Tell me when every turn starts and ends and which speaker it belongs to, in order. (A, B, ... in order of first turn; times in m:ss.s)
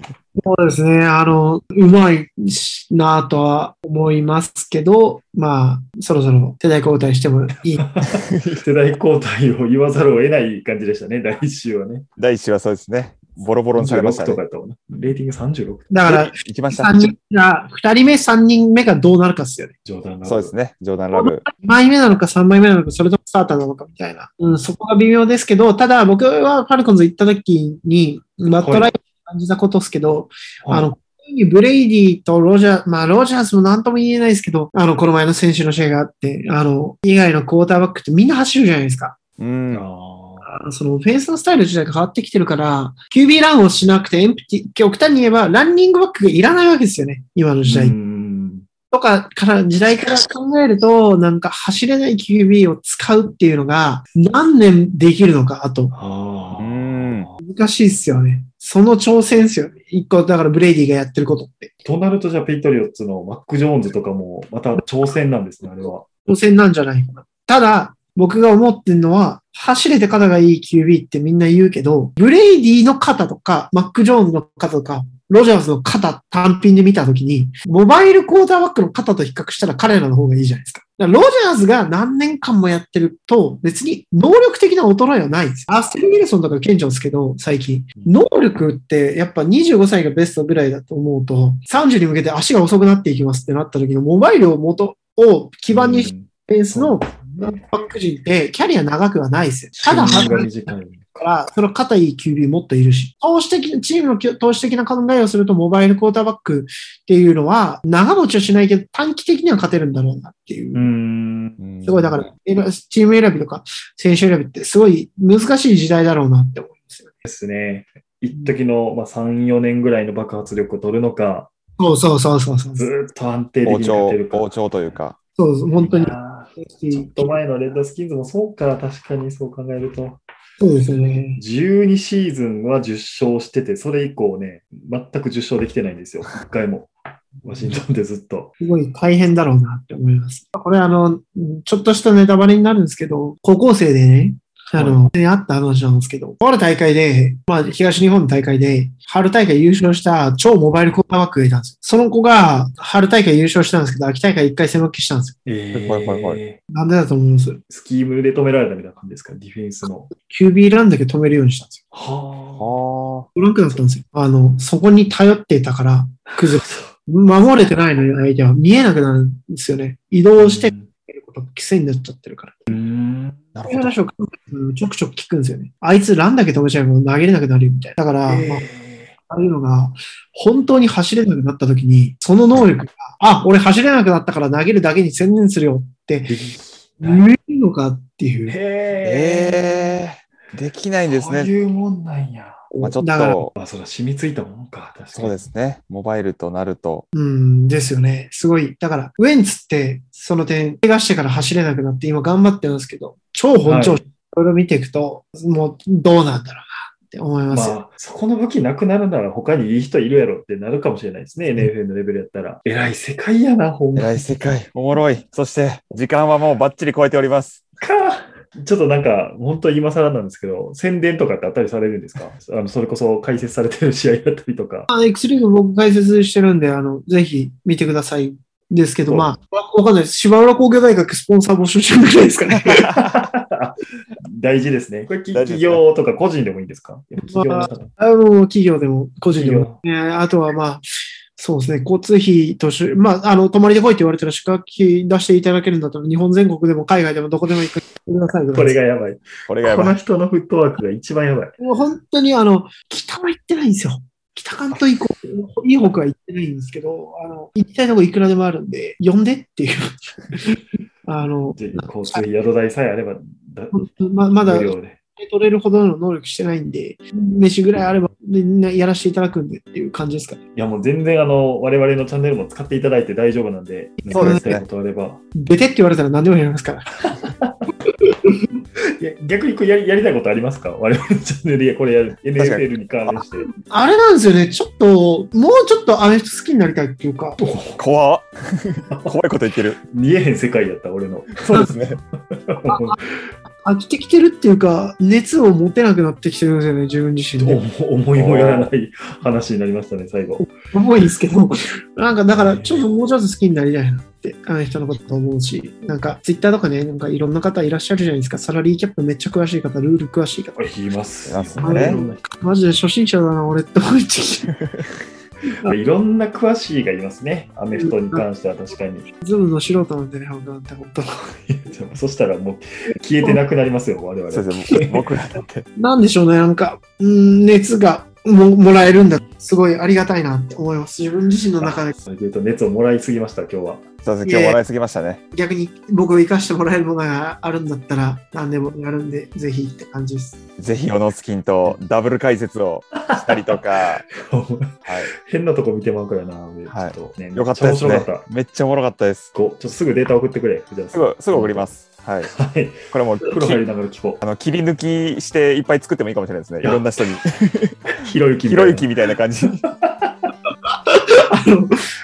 0:00.4-0:07.8 A
0:07.7-0:12.1 B
0:08.2-0:08.6 C
0:12.2-0:14.4 C
0:13.7-0:15.9 B
0:15.9-0:19.8 A
0:16.1-0:17.1 C
0:19.8-0:20.6 B
0:20.2-0:21.5 C
0:21.1-0:39.3 A
0:28.6-0:28.9 B
0:30.6-0:30.9 B
0:39.4-0:39.8 C
0:39.7-0:40.5 B
0:40.4-0:48.0 A
0:47.6-0:48.6 B
0:48.9-0:55.9 A
0:55.9-0:57.4 B
0:56.6-0:57.3 C
0:57.4-1:01.8 A
1:01.8-1:06.1 B
1:04.8-1:05.1 A
1:05.6-1:50.9 A
1:28.0-1:28.2 B
1:35.7-1:37.7 B
1:39.8-1:41.3 B
1:50.7-1:51.6 B
1:51.6-1:52.2 C
1:51.8-1:57.3 A
1:57.2-2:01.5 B
1:58.3-1:58.6 A
2:01.8-2:02.9 A
2:02.8-2:04.5 B
2:03.6-2:05.2 C
2:05.4-2:07.4 A
2:05.8-2:10.2 B
2:10.6-2:11.4 A
2:11.4-2:18.5 B
2:17.4-2:17.8 A
2:18.6-2:35.4 A
2:24.8-2:25.0 B
2:35.4-2:36.6 B
2:35.7-2:36.4 C
2:36.7-2:37.6 A
2:37.7-2:40.1 B
2:40.1-2:41.8 A
2:41.9-2:42.7 B
2:42.6-2:43.3 C
2:43.4-2:52.8 A
2:46.3-2:46.9 B
2:50.4-2:50.9 B
2:52.7-2:53.4 B
2:53.6-2:54.0 C
2:53.7-2:58.7 A
2:58.3-2:59.2 B
2:59.3-3:06.4 A
3:06.3-3:07.2 B
3:07.0-3:08.6 A
3:08.5-3:10.0 B
3:09.0-3:11.5 C
3:11.0-3:12.6 B
3:12.7-3:13.5 A
3:12.8-3:13.5 C
3:13.6-3:15.4 B
3:15.1-3:17.0 C
3:17.1-3:27.8 A
3:23.6-3:24.0 B
3:27.5-3:34.5 B
3:34.0-3:37.6 C
3:37.8-3:44.9 B
3:44.9-3:53.2 A
3:53.0-3:57.9 B
3:55.3-3:55.8 C
3:57.2-4:08.8 A
3:59.3-3:59.8 B
4:08.5-4:11.5 B
4:09.5-4:10.0 C
4:11.6-4:22.2 A
4:21.6-4:23.7 B
4:23.7-4:30.4 A
4:24.4-4:25.0 B
4:30.6-4:35.2 B
4:34.0-4:34.6 A
4:34.1-4:34.6 C
4:35.4-4:38.6 A
4:37.4-4:37.7 B
4:39.0-4:43.5 B
4:42.4-4:42.6 C
4:43.1-4:47.4 A
4:47.4-4:47.8 B
4:47.8-4:49.8 C
4:49.9-4:51.8 B
4:51.4-4:52.0 C
4:52.3-4:53.3 B
4:52.7-4:53.0 A
4:53.6-4:57.6 A
4:57.4-5:00.4 B
4:58.1-4:58.7 C
5:00.4-5:10.7 A
5:02.3-5:02.9 B
5:10.6-5:12.2 B
5:11.3-5:12.0 C
5:11.6-5:14.5 A
5:14.5-5:14.8 C
5:15.5-5:15.8 A
5:15.7-5:19.1 B
5:17.7-5:18.2 A
5:19.2-5:21.2 A
5:21.5-5:25.0 B
5:24.3-5:25.7 C
5:25.8-5:32.0 A
5:31.6-5:33.9 B
5:34.0-5:35.2 C
5:34.2-5:34.6 A
5:35.3-5:40.4 A
5:40.6-5:44.1 C
5:43.1-5:43.6 B
5:44.2-5:48.3 B
5:44.9-5:45.1 C
5:46.7-5:49.3 C
5:49.3-5:51.7 B
5:50.9-5:52.3 C
5:52.3-5:54.2 B
5:52.9-5:53.6 C
5:54.2-5:57.8 C
5:57.9-5:58.9 B
5:58.4-5:59.6 C
5:59.8-6:00.3 B
6:00.5-6:01.7 A